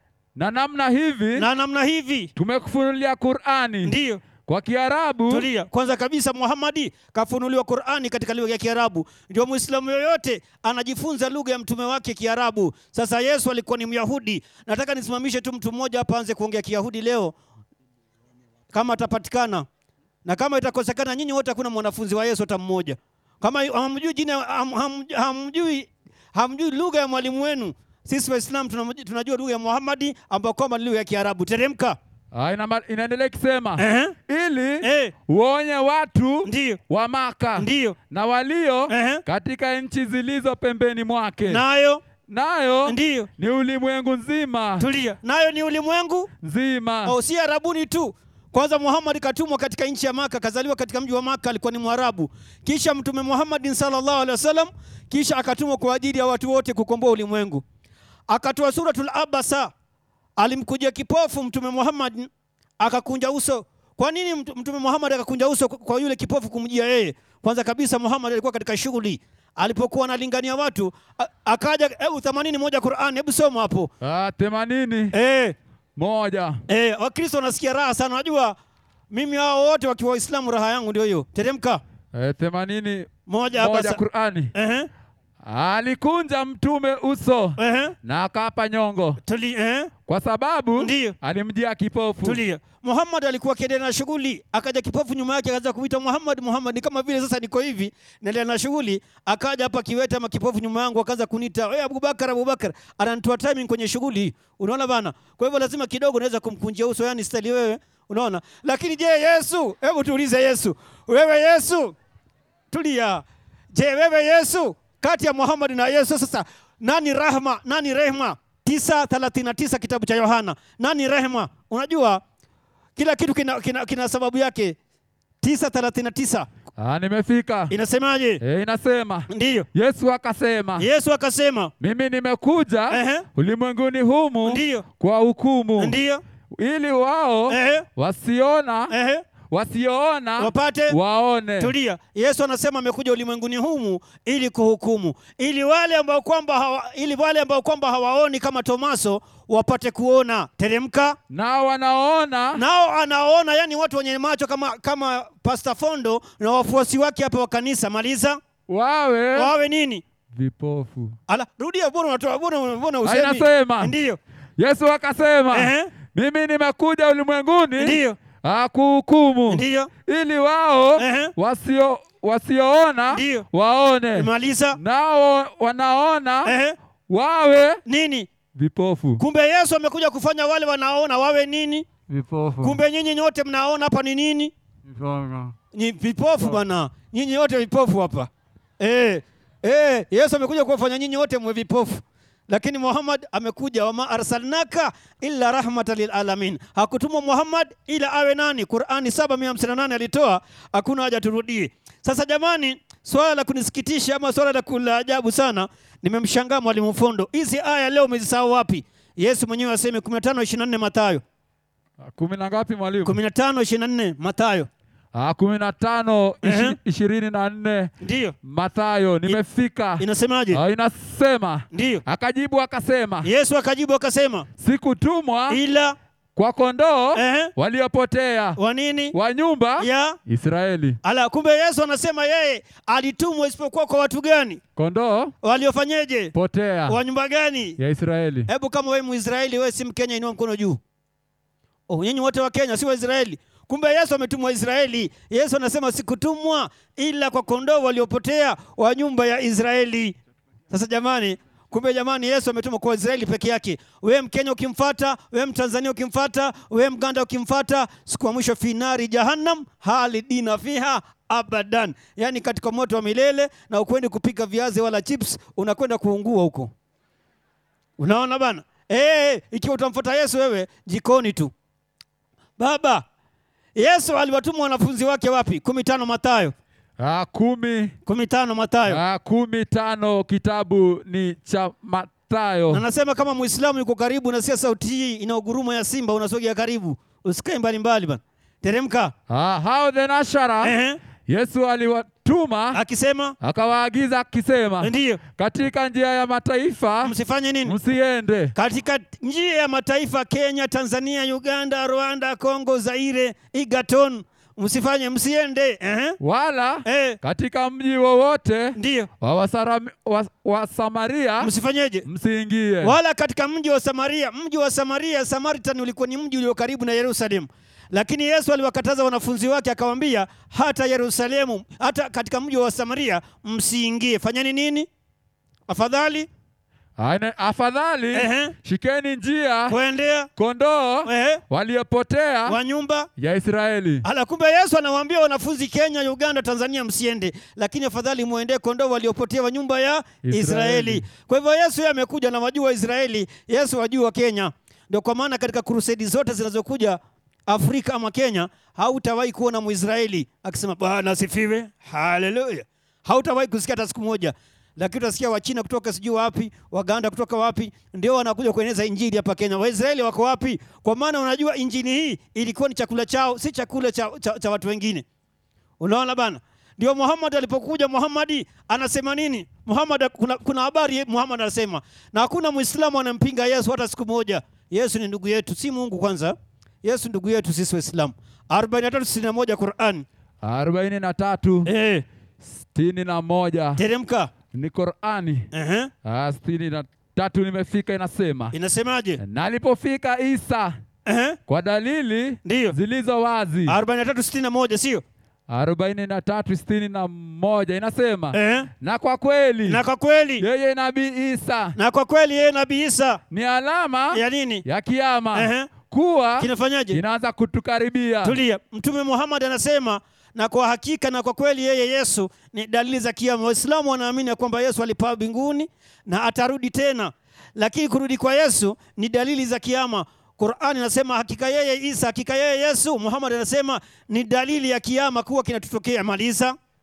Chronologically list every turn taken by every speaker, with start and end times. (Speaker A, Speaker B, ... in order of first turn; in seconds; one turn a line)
Speaker A: 0.3-1.4
Speaker B: 1.4-2.3
Speaker A: 2.4-3.9
Speaker B: 3.8-4.2
Speaker A: 4.5-5.5
Speaker B: 5.3-17.3
Speaker B: 18.7-19.6
Speaker B: 20.2-32.0
Speaker A: 32.3-41.6
Speaker B: 33.8-34.1
Speaker B: 34.8-35.1
Speaker B: 36.5-36.8
Speaker B: 37.6-38.0
Speaker B: 38.9-39.2
Speaker B: 41.5-42.0
Speaker A: 42.3-44.9
Speaker B: 42.9-43.3
Speaker B: 44.8-46.3
Speaker A: 46.4-47.1
Speaker B: 47.0-57.6
Speaker B: 58.3-59.7
Speaker B: 60.4-73.9
Speaker A: 74.0-75.1
Speaker B: 75.1-75.5
Speaker A: 76.0-76.6
Speaker B: 76.7-78.6
Speaker B: 79.1-81.8
Speaker A: 82.1-84.5
Speaker B: 83.3-84.0
Speaker B: 84.5-84.9
Speaker A: 85.5-89.2
Speaker B: 87.6-87.9
Speaker B: 89.3-89.9
Speaker A: 90.1-92.4
Speaker B: 90.8-91.1
Speaker B: 92.2-111.9
Speaker B: 112.7-122.2
Speaker B: 123.0-124.8
Speaker B: 125.4-126.5
Speaker A: 126.8-127.7
Speaker B: 127.7-128.4
Speaker A: 128.4-130.9
Speaker B: 129.3-129.7
Speaker B: 130.8-131.7
Speaker A: 131.8-135.9
Speaker B: 132.9-133.2
Speaker B: 134.4-134.8
Speaker B: 135.8-136.2
Speaker A: 136.5-138.9
Speaker B: 137.5-137.8
Speaker B: 138.9-139.2
Speaker A: 139.5-141.7
Speaker B: 140.4-140.9
Speaker B: 141.6-151.2
Speaker A: 151.3-152.6
Speaker B: 152.5-158.4
Speaker A: 158.7-159.5
Speaker B: 159.3-160.0
Speaker A: 160.3-161.2
Speaker B: 161.3-164.2
Speaker A: 163.0-163.9
Speaker A: 164.6-176.5
Speaker B: 165.5-165.9
Speaker B: 167.8-168.2
Speaker B: 169.5-169.9
Speaker B: 171.0-171.3
Speaker B: 173.1-173.4
Speaker B: 174.1-174.8
Speaker B: 176.4-176.8
Speaker A: 177.1-177.8
Speaker B: 177.8-178.3
Speaker A: 178.5-179.2
Speaker B: 179.2-181.9
Speaker A: 182.1-182.8
Speaker B: 182.6-184.5
Speaker A: 184.9-185.6
Speaker B: 185.7-211.2
Speaker A: 212.0-213.2
Speaker B: 213.1-214.7
Speaker A: 215.1-217.9
Speaker B: 216.4-216.8
Speaker B: 218.0-218.3
Speaker A: 218.4-223.3
Speaker B: 220.0-220.6
Speaker B: 221.7-222.0
Speaker B: 223.2-224.4
Speaker A: 224.6-225.6
Speaker B: 225.5-225.9
Speaker A: 226.3-228.6
Speaker B: 227.1-227.5
Speaker B: 228.6-229.1
Speaker A: 229.1-231.0
Speaker B: 229.8-230.2
Speaker B: 231.0-234.6
Speaker A: 234.8-235.3
Speaker B: 235.4-236.3
Speaker A: 236.3-237.0
Speaker B: 236.9-237.8
Speaker A: 237.8-238.5
Speaker B: 238.5-240.8
Speaker B: 241.9-250.2
Speaker B: 250.7-266.7
Speaker B: 268.0-271.5
Speaker B: 272.6-273.0
Speaker B: 273.8-276.5
Speaker A: 277.0-277.9
Speaker B: 278.1-279.0
Speaker A: 278.9-282.8
Speaker B: 282.7-289.1
Speaker A: 289.3-290.7
Speaker B: 290.6-291.0
Speaker A: 291.3-292.8
Speaker B: 292.7-293.3
Speaker A: 293.4-297.1
Speaker B: 294.8-295.2
Speaker B: 297.0-297.8
Speaker A: 297.6-298.5
Speaker B: 298.6-306.2
Speaker A: 306.2-311.5
Speaker B: 306.9-307.2
Speaker B: 308.8-309.1
Speaker B: 311.4-312.0
Speaker A: 312.0-312.9
Speaker B: 312.8-324.9
Speaker B: 325.7-326.3
Speaker A: 327.0-329.8
Speaker B: 328.1-328.5
Speaker B: 329.7-330.3
Speaker A: 330.4-332.6
Speaker B: 331.1-331.4
Speaker B: 332.5-333.1
Speaker A: 333.2-334.0
Speaker B: 334.0-365.0
Speaker A: 340.2-341.1
Speaker B: 365.8-380.0
Speaker A: 380.4-381.7
Speaker B: 381.6-382.0
Speaker A: 382.5-383.8
Speaker B: 383.8-384.3
Speaker A: 384.5-385.5
Speaker B: 385.5-385.9
Speaker A: 386.0-388.6
Speaker B: 388.5-389.2
Speaker A: 389.2-390.8
Speaker B: 391.1-391.4
Speaker A: 391.5-393.8
Speaker B: 392.4-392.7
Speaker B: 393.7-395.0
Speaker A: 395.5-399.8
Speaker B: 398.3-398.7
Speaker B: 399.6-400.4
Speaker A: 400.4-401.8
Speaker B: 401.8-403.2
Speaker A: 403.3-408.4
Speaker B: 404.1-404.6
Speaker B: 405.3-405.7
Speaker B: 406.4-407.0
Speaker B: 408.2-426.5